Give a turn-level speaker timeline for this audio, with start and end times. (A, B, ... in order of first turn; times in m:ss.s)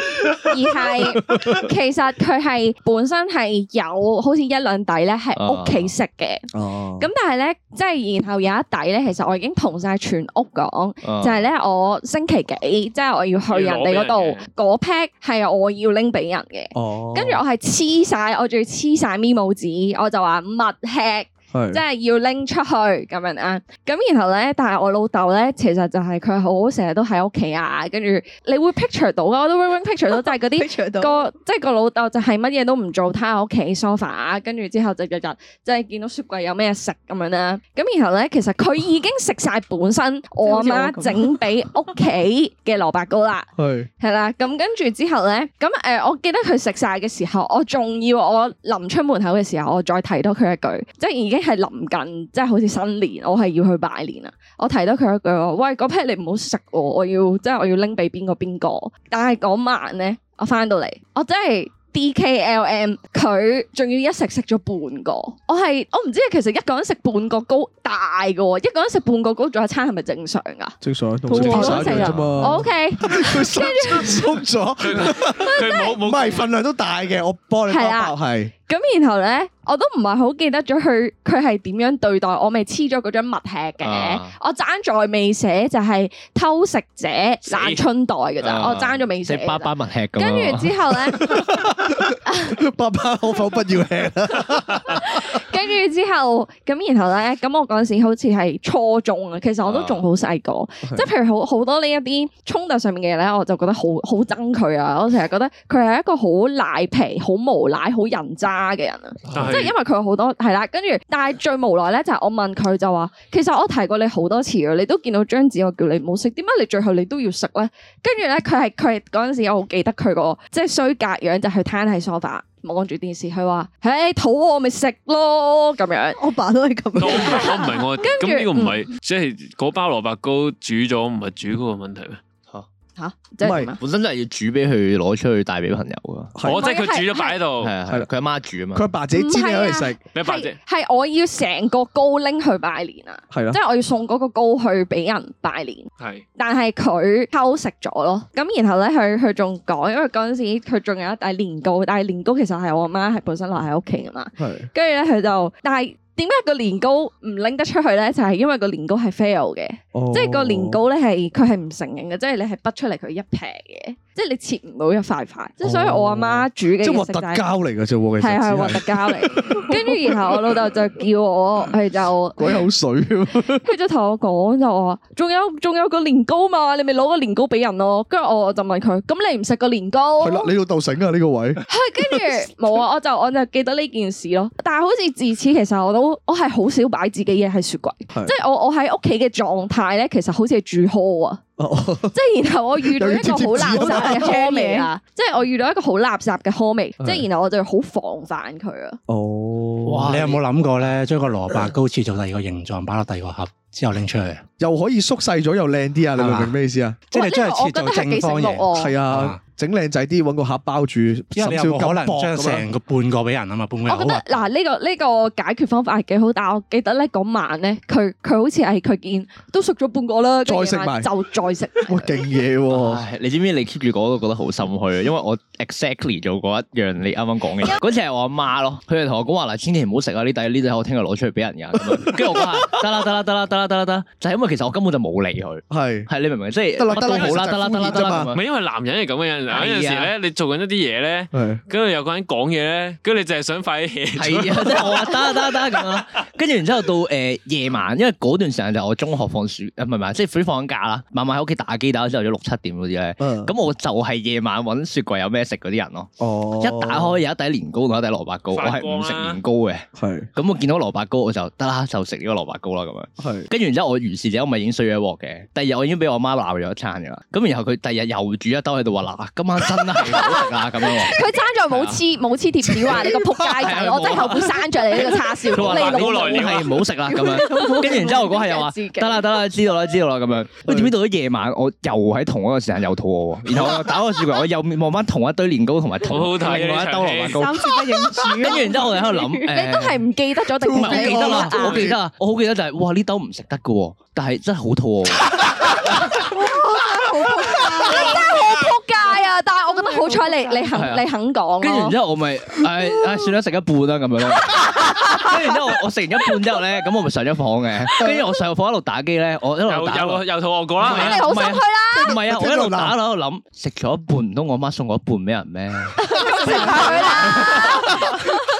0:00.4-0:06.5 A
0:01.3-0:01.6 B
0:05.4-0:05.9 C
0:06.5-0:07.1 B
0:07.0-0:43.5 A
0:11.0-0:11.4 C
0:13.5-0:14.4 D
0:16.7-0:17.4 B
0:21.5-0:21.8 B
0:30.1-0:31.3 E
0:40.4-0:41.4 E
0:43.6-0:43.9 B
0:44.0-1:10.8 A
1:10.8-1:18.5 B
1:11.3-1:14.4 A
1:11.3-1:12.2 E
1:14.8-1:16.5 D
1:15.3-1:16.0 A
1:17.7-1:18.1 A
1:18.7-1:31.5 A
1:23.8-1:24.4 C
1:27.5-1:27.8 D
1:28.4-1:30.8 C
1:31.2-1:35.4 B
1:32.2-1:32.6 A
1:34.9-2:06.2 A
1:39.6-1:40.0 C
1:49.3-1:49.8 D
2:06.2-2:07.7 E
2:07.0-2:12.2 D
2:07.0-2:08.8 A
2:13.0-2:13.8 A
2:13.4-2:13.7 B
2:13.8-2:16.4 C
2:16.4-2:16.7 B
2:16.4-2:17.7 D
2:16.5-2:17.4 A
2:17.6-2:18.9 C
2:18.7-2:20.0 B
2:19.1-2:47.4 A
2:20.1-2:20.6 D
2:23.3-2:23.6 B
2:26.0-2:26.2 D
2:34.4-2:34.7 B
2:39.9-2:40.8 B
2:45.6-2:50.1 B
2:48.2-2:52.6 A
2:52.4-2:53.7 B
2:53.6-3:00.5 A
3:00.2-3:02.4 B
3:01.7-3:11.4 A
3:11.6-3:12.2 B
3:12.1-3:19.0 A
3:12.8-3:14.3 B
3:13.7-3:14.9 E
3:17.0-3:17.2 B
3:19.1-3:20.3 B
3:19.9-3:24.4 F
3:19.9-3:20.4 C
3:24.6-3:27.0 B
3:26.2-3:26.5 F
3:27.1-3:29.4 F
3:27.1-3:28.9 A
3:28.7-3:32.7 B
3:31.3-3:34.4 F
3:33.9-3:42.2 A
3:40.4-3:41.1 B
3:41.8-3:43.0 B
3:42.7-3:58.4 C
3:51.9-3:52.5 B
3:55.7-3:56.1 B
3:56.8-3:58.3 B
3:56.9-3:57.4 D
3:58.3-4:05.8 D
3:59.5-4:00.1 C
4:01.3-4:01.6 B
4:04.2-4:31.2 C
4:13.2-4:13.5 B
4:16.2-4:17.2 B
4:18.5-4:19.4 D
4:20.0-4:20.3 B
4:23.2-4:23.5 B
4:30.1-4:36.5 A
4:31.7-4:32.0 C
4:32.9-4:50.0 C
4:35.5-4:36.8 D
4:37.0-4:38.4 E
4:37.2-4:39.3 A
4:40.7-4:41.0 B
4:46.1-4:47.4 D
4:47.3-4:49.5 E
4:48.5-4:48.9 A
4:49.4-4:51.9 A
4:50.6-4:52.0 B
4:50.7-4:56.2 C
4:56.2-5:00.7 E
4:57.0-5:02.0 A
5:00.7-5:01.0 C
5:01.6-5:10.2 C
5:09.6-5:11.3 D
5:10.8-5:18.0 C
5:10.8-5:12.2 A
5:11.9-5:13.0 B
5:16.0-5:18.3 A
5:16.2-5:17.3 E
5:16.7-5:18.2 B